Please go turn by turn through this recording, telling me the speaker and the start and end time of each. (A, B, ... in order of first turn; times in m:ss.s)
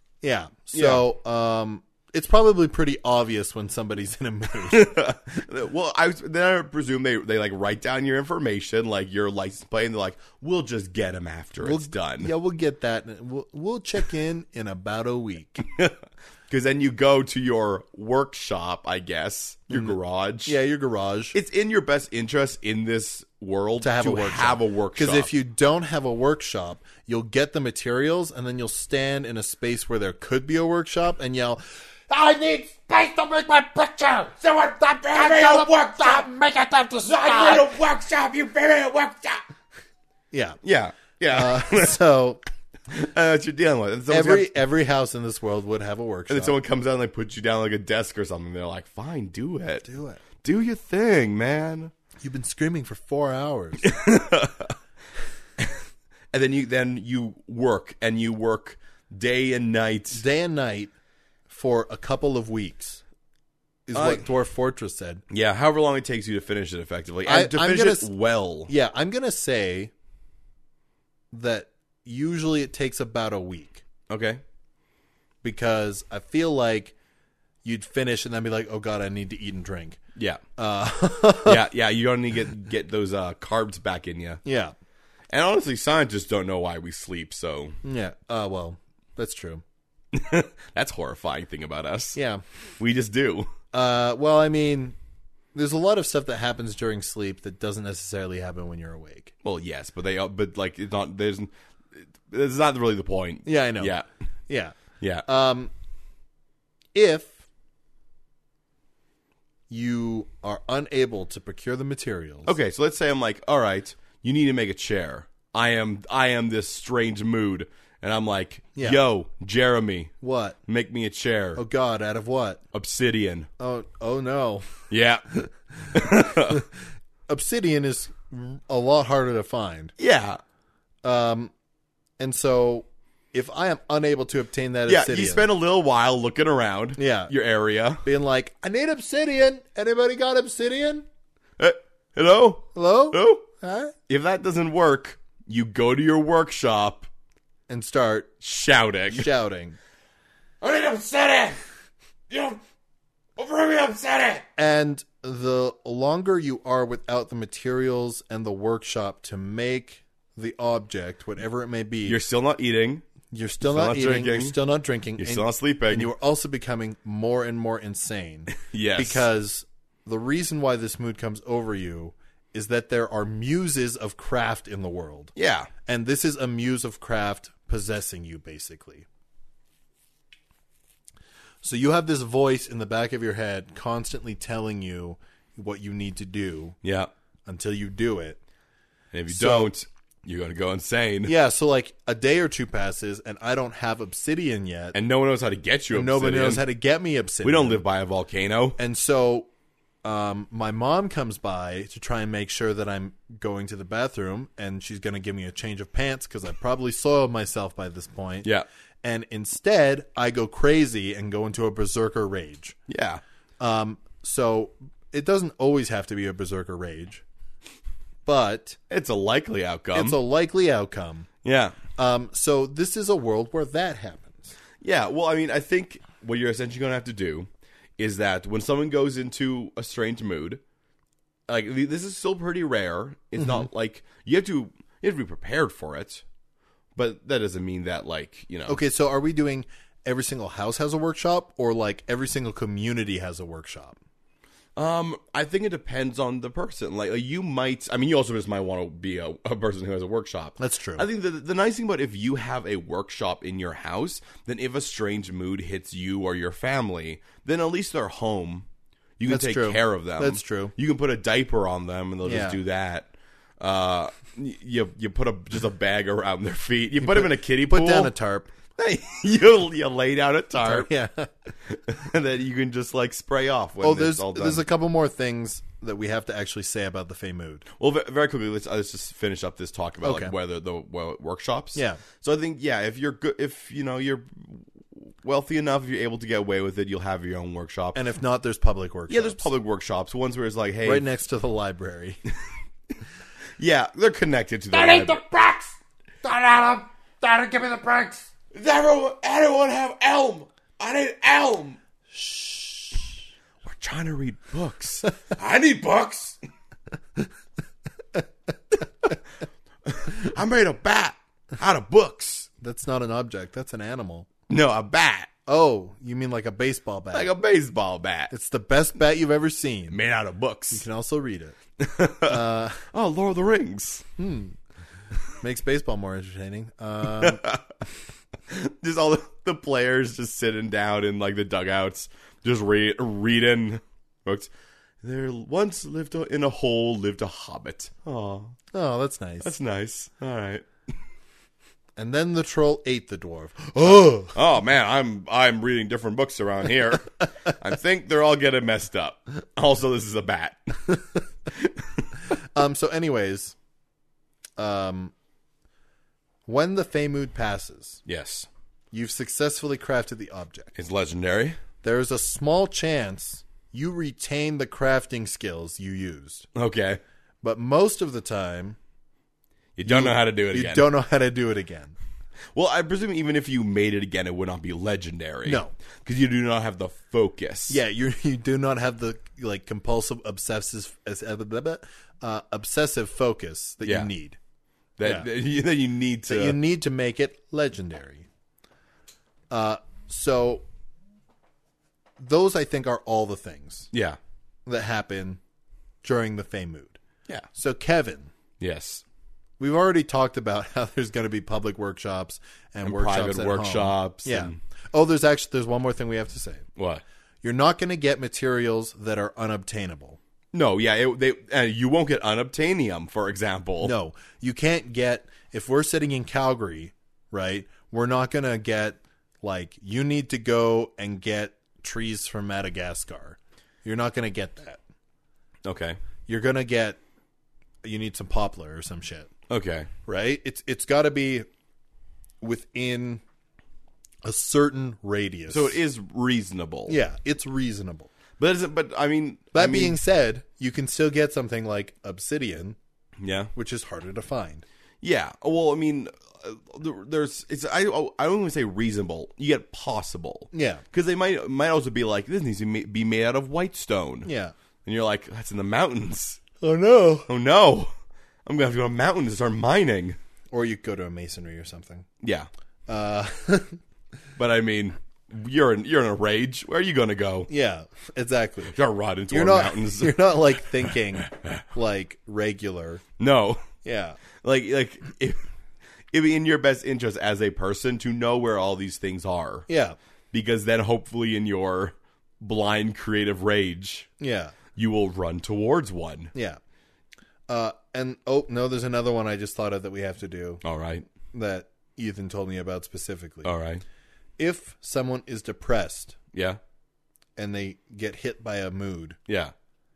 0:00.2-0:04.9 A
0:00.7-0:01.0 B
0:04.7-0:12.3 B
0:11.6-0:15.6 A
0:15.7-0:16.0 B
0:16.5-0:20.5 B
0:19.7-0:21.3 A
0:21.3-0:25.3 B
0:23.8-0:31.6 A
0:32.1-0:37.7 C
0:34.5-0:36.2 B
0:37.0-0:39.4 B
0:40.3-0:40.6 A
0:40.6-0:42.0 B
0:41.3-0:42.4 A
0:42.9-0:44.5 B
0:44.1-0:46.5 A
0:46.3-0:49.9 B
0:49.8-0:50.2 A
0:50.4-0:51.9 B
0:52.2-0:53.9 A
0:53.8-0:54.7 B
0:56.3-1:00.2 B
1:00.1-1:00.9 A
1:01.5-1:03.0 A
1:03.9-1:05.2 A
1:03.9-1:04.2 B
1:05.3-1:08.7 B
1:07.2-1:08.1 A
1:08.7-1:09.9 A
1:11.3-1:13.8 A
1:14.1-1:14.4 B
1:15.4-1:16.9 A
1:17.6-1:20.0 A
1:20.2-1:20.4 B
1:20.6-1:21.6 A
1:21.4-1:24.4 B
1:24.4-1:24.7 A
1:25.3-1:27.8 B
1:27.8-1:29.6 A
1:30.1-1:32.2 B
1:32.1-1:32.4 A
1:32.8-1:33.5 B
1:33.7-1:35.0 A
1:35.5-1:39.3 A
1:39.4-1:44.0 B
1:43.4-1:44.0 A
1:44.5-1:45.7 A
1:45.0-1:45.2 B
1:46.9-1:47.4 A
1:49.7-1:52.5 A
1:52.4-2:00.1 B
1:58.7-1:59.0 A
2:00.2-2:00.6 A
2:00.7-2:01.6 B
2:01.6-2:02.6 A
2:02.7-2:03.5 B
2:03.6-2:04.8 A
2:04.9-2:05.2 B
2:05.9-2:06.6 B
2:06.0-2:06.7 A
2:07.3-2:09.9 A
2:10.0-2:10.4 B
2:11.0-2:11.5 A
2:12.2-2:15.4 A
2:14.9-2:18.0 B
2:17.0-2:17.3 A
2:18.0-2:21.0 A
2:21.6-2:23.4 B
2:22.7-2:23.9 A
2:24.1-2:27.1 B
2:27.7-2:28.3 A
2:28.4-2:29.3 B
2:29.1-2:29.8 A
2:30.7-2:31.5 B
2:33.4-2:34.4 B
2:34.6-2:42.2 A
2:42.0-2:43.0 B
2:43.3-2:55.3 A
2:43.6-2:44.6 B
2:45.2-2:46.1 B
2:48.5-2:49.3 B
2:55.4-2:55.7 B
2:55.8-2:59.1 A
3:01.6-3:06.8 A
3:06.8-3:07.1 B
3:07.4-3:08.4 A
3:09.1-3:11.3 B
3:09.3-3:09.7 A
3:11.2-3:14.9 A
3:14.9-3:16.6 B
3:15.9-3:17.8 A
3:17.4-3:18.8 B
3:18.8-3:19.5 A
3:20.0-3:28.5 A
3:29.0-3:32.8 A
3:32.9-3:33.2 B
3:33.6-3:37.2 A
3:38.2-3:38.8 A
3:38.9-3:40.2 B
3:39.9-3:41.3 A
3:41.4-3:41.8 B
3:41.9-3:44.5 A
3:44.8-3:50.6 B
3:51.5-3:56.2 B
3:53.4-3:53.7 A
3:57.0-3:58.8 B
3:58.7-4:04.0 A
4:04.8-4:18.6 B
4:10.6-4:11.0 A
4:19.2-4:28.1 B
4:19.3-4:20.7 A
4:22.2-4:22.6 A
4:27.0-4:28.5 A
4:28.8-4:30.9 B
4:30.6-4:31.3 A
4:31.7-4:34.6 B
4:33.8-4:37.6 A
4:37.8-4:48.0 B
4:40.0-4:40.3 A
4:41.7-4:42.0 A
4:47.9-4:49.5 A
4:49.1-4:51.0 B
4:50.8-4:52.2 A
4:53.6-4:55.2 B
4:54.7-4:58.3 C
4:58.5-5:01.8 B
5:02.1-5:03.1 A
5:03.6-5:06.4 B
5:09.8-5:12.5 B
5:12.6-5:14.3 A
5:14.5-5:15.3 B
5:15.5-5:17.3 A
5:17.1-5:18.3 B
5:18.3-5:20.0 A
5:19.9-5:20.8 B
5:20.7-5:21.6 A
5:21.8-5:24.0 B
5:22.2-5:22.8 A
5:24.2-5:24.6 A
5:25.4-5:27.4 A
5:27.0-5:27.6 B
5:28.5-5:34.5 B
5:35.0-5:38.6 B
5:38.7-5:39.5 A
5:39.4-5:40.6 B
5:42.0-5:44.4 A
5:44.2-5:51.0 B
5:51.5-5:52.1 B
5:52.5-5:53.5 A
5:54.6-5:55.1 A
5:56.4-5:58.0 A
5:58.0-5:58.5 B
5:58.9-6:00.7 A
6:00.7-6:01.6 B
6:01.8-6:06.5 A
6:06.5-6:07.0 B
6:07.4-6:08.8 A
6:09.8-6:10.9 B
6:09.8-6:11.9 A
6:12.5-6:17.8 B
6:15.4-6:15.7 A
6:17.7-6:24.4 A
6:23.8-6:24.1 B
6:25.0-6:26.6 B
6:26.2-6:28.3 A
6:29.5-6:30.6 A
6:32.2-6:33.9 A
6:33.9-6:34.2 B
6:34.6-6:35.4 A
6:36.0-6:37.0 A
6:37.5-6:38.3 A
6:38.6-6:39.0 B
6:39.6-6:46.6 A
6:42.8-6:44.6 B
6:46.8-6:47.0 B
6:47.4-6:50.2 A
6:50.5-6:53.9 B
6:53.8-7:04.8 A
7:05.6-7:06.0 B
7:06.3-7:07.0 A
7:07.8-7:09.3 A
7:09.5-7:09.9 B
7:10.1-7:11.5 A
7:12.4-7:13.2 A
7:14.2-7:15.8 A
7:15.5-7:17.0 B
7:16.9-7:18.1 A
7:18.4-7:20.0 B
7:19.5-7:22.8 A
7:23.2-7:23.5 B
7:23.5-7:24.6 A
7:25.0-7:34.3 B
7:30.5-7:30.8 A
7:34.2-7:34.5 A
7:34.8-7:36.4 B
7:36.6-7:37.3 A
7:37.3-7:37.9 B
7:38.4-7:40.2 B
7:40.5-7:42.0 A
7:42.2-7:42.5 B
7:42.9-7:43.8 A
7:44.4-7:47.5 B
7:47.5-7:48.7 A
7:48.7-7:51.5 B
7:49.3-7:53.0 A
7:53.2-7:53.7 B
7:53.8-7:54.2 A
7:54.4-7:55.4 B
7:56.1-7:59.7 B
7:59.7-8:00.0 A
8:00.3-8:04.1 B
8:04.2-8:04.5 A
8:04.7-8:06.3 B
8:06.3-8:06.6 A
8:07.5-8:10.6 A
8:10.6-8:11.0 B
8:11.3-8:13.5 A
8:13.4-8:13.8 B
8:14.4-8:16.2 A
8:16.3-8:16.6 B
8:17.4-8:19.2 A
8:19.3-8:19.5 B